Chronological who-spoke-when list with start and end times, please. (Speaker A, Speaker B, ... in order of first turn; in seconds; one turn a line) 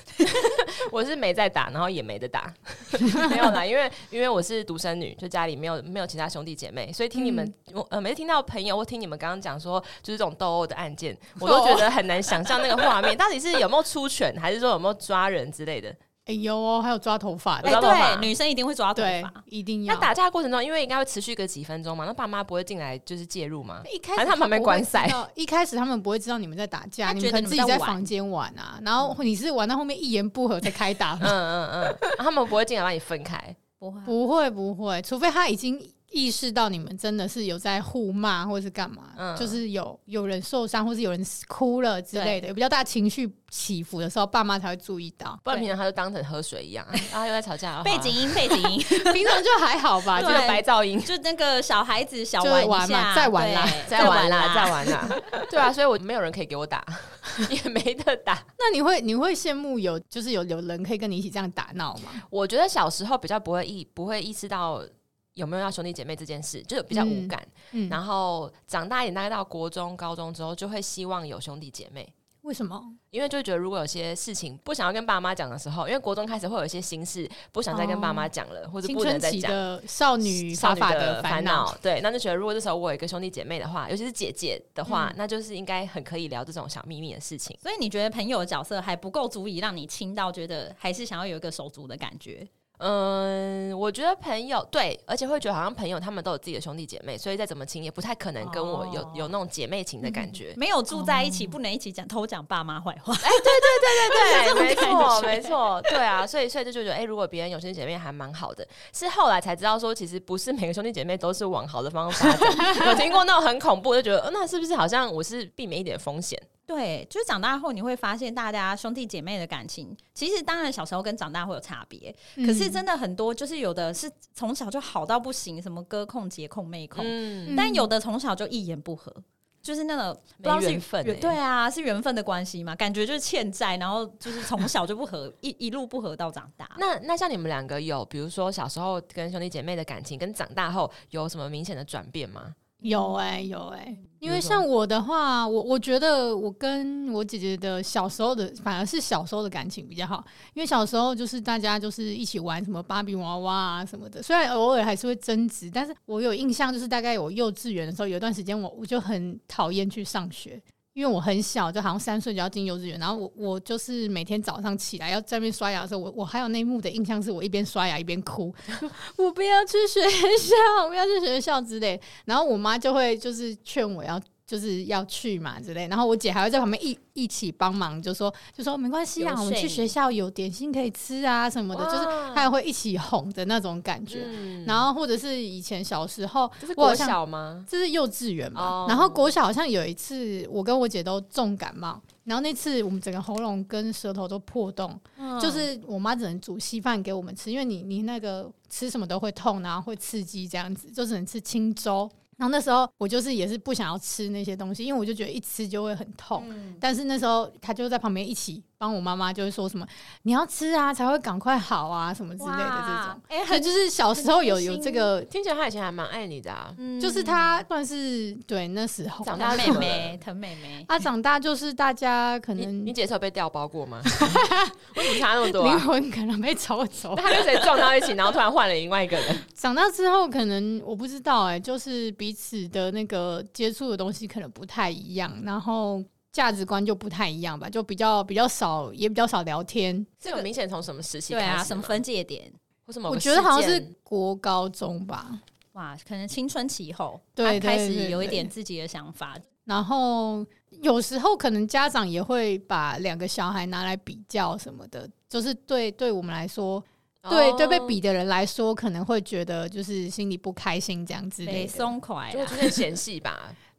Speaker A: 0.4-16.0
Speaker B: 7.2-7.5
Speaker B: 11.4-11.9
Speaker B: 16.3-18.0
Speaker A: 17.6-18.3
Speaker C: 17.6-19.4
Speaker B: 18.9-20.1
Speaker A: 19.9-25.2
Speaker B: 23.9-31.4
Speaker C: 27.1-28.1
Speaker A: 31.2-33.6
Speaker C: 33.8-34.2
Speaker B: 34.1-45.5
Speaker A: 39.2-39.6
Speaker C: 42.1-42.4
Speaker A: 45.5-48.8
Speaker C: 47.8-49.4
Speaker B: 49.0-50.5
Speaker A: 50.1-51.1
Speaker C: 50.1-55.1
Speaker B: 52.4-54.2
Speaker A: 53.9-58.5
Speaker B: 58.6-62.2
Speaker A: 62.3-72.1
Speaker B: 66.9-68.0
Speaker B: 72.4-73.0
Speaker A: 73.1-79.6
Speaker B: 77.7-78.3
Speaker B: 78.8-81.8
Speaker A: 80.2-87.6
Speaker C: 87.6-92.5
Speaker A: 92.8-100.6
Speaker C: 98.4-99.3
Speaker C: 100.5-106.0
Speaker B: 100.9-101.6
Speaker A: 103.2-116.5
Speaker C: 116.7-136.8
Speaker B: 122.4-122.8
Speaker A: 127.0-127.6
Speaker B: 127.5-127.9
Speaker A: 130.4-131.4
Speaker A: 136.8-142.6
Speaker B: 142.8-187.2
Speaker C: 142.8-143.2
Speaker A: 144.2-144.7
Speaker C: 179.2-179.9
Speaker A: 181.7-182.5
Speaker A: 184.1-184.9
Speaker A: 186.6-187.7
Speaker B: 187.7-215.3
Speaker A: 188.6-189.3
Speaker C: 195.2-195.7
Speaker C: 206.4-206.8
Speaker C: 212.4-215.1
Speaker A: 215.3-216.8
Speaker C: 216.8-217.7
Speaker B: 217.0-219.9
Speaker A: 219.2-220.2
Speaker C: 219.4-220.9
Speaker B: 220.9-222.9
Speaker A: 222.6-225.9
Speaker B: 224.1-227.7
Speaker A: 227.1-229.4
Speaker B: 229.6-240.2
Speaker A: 240.2-242.0
Speaker C: 241.3-242.6
Speaker A: 242.9-243.9
Speaker B: 243.1-245.4
Speaker C: 245.7-249.4
Speaker B: 247.4-248.5
Speaker B: 249.7-261.9
Speaker A: 257.2-258.0
Speaker C: 261.4-262.8
Speaker A: 262.3-263.6